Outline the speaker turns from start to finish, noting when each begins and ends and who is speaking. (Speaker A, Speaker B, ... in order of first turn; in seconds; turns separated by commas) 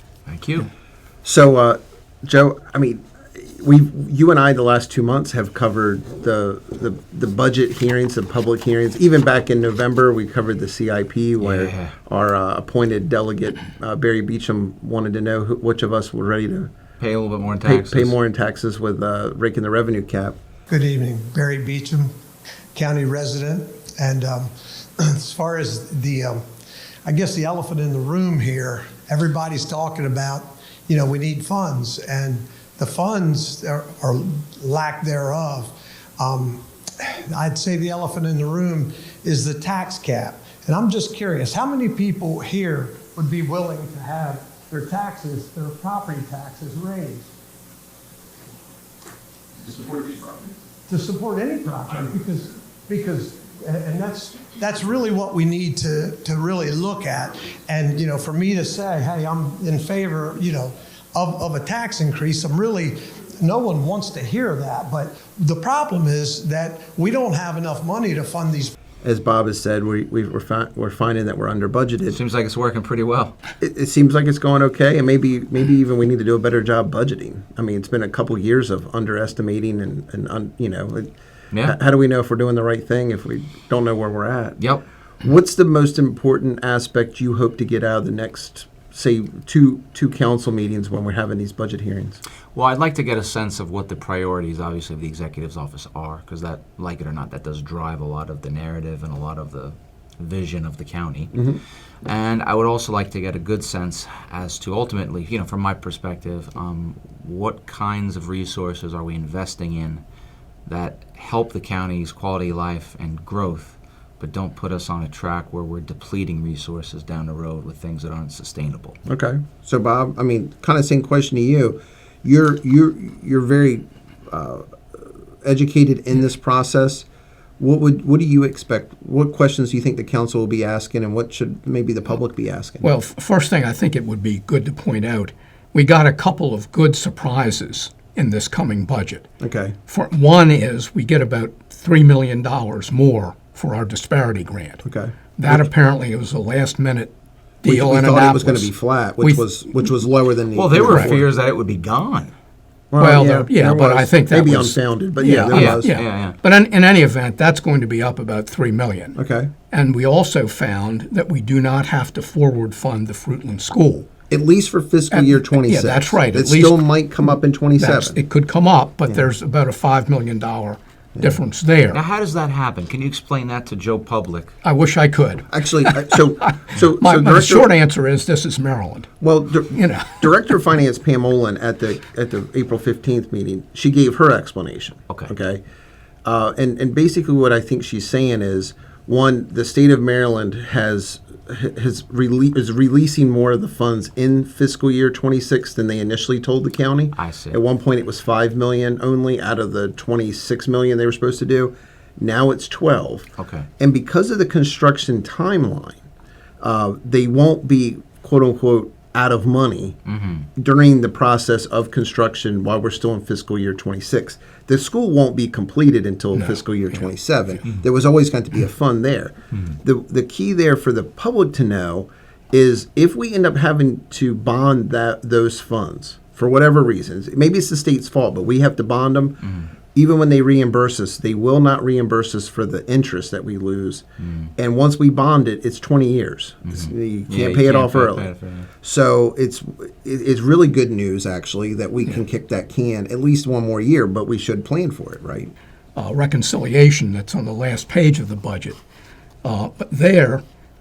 Speaker A: 0.3-0.7, Speaker B: 1.2-16.7, Speaker A: 11.4-11.9, Speaker A: 17.0-18.1, Speaker B: 17.6-20.4, Speaker C: 20.7-22.1, Speaker C: 22.7-26.4, Speaker C: 27.0-47.3, Speaker C: 49.6-68.7, Speaker B: 69.0-72.2, Speaker A: 72.1-73.4, Speaker B: 73.6-81.1, Speaker B: 81.6-84.6, Speaker A: 84.6-84.8, Speaker B: 85.2-92.2, Speaker A: 92.5-101.3, Speaker B: 101.3-101.6, Speaker A: 102.0-110.0, Speaker A: 110.7-119.0, Speaker B: 119.1-124.7, Speaker B: 125.4-127.0, Speaker B: 127.6-132.9, Speaker D: 132.8-139.2, Speaker B: 139.4-139.8, Speaker D: 139.9-144.8, Speaker B: 144.8-145.7, Speaker D: 145.4-149.4, Speaker B: 147.6-151.2, Speaker A: 150.5-152.3, Speaker D: 150.9-151.2, Speaker B: 152.9-155.9, Speaker D: 153.0-159.2, Speaker A: 155.5-156.4, Speaker B: 159.2-159.5, Speaker D: 159.7-164.1, Speaker B: 164.3-168.2, Speaker D: 165.1-172.0, Speaker A: 171.9-174.5, Speaker D: 174.6-179.1, Speaker B: 175.5-177.7, Speaker B: 179.2-185.6, Speaker D: 179.7-180.3, Speaker B: 186.2-203.3, Speaker A: 197.1-197.6, Speaker A: 203.4-203.7, Speaker B: 203.8-206.0, Speaker B: 206.6-210.0, Speaker A: 210.1-210.4, Speaker B: 210.6-229.4, Speaker D: 216.3-217.0, Speaker B: 229.9-234.0, Speaker A: 234.2-234.5, Speaker B: 234.6-238.3, Speaker A: 236.7-238.7, Speaker B: 238.8-245.5, Speaker D: 245.9-248.8, Speaker D: 249.4-250.4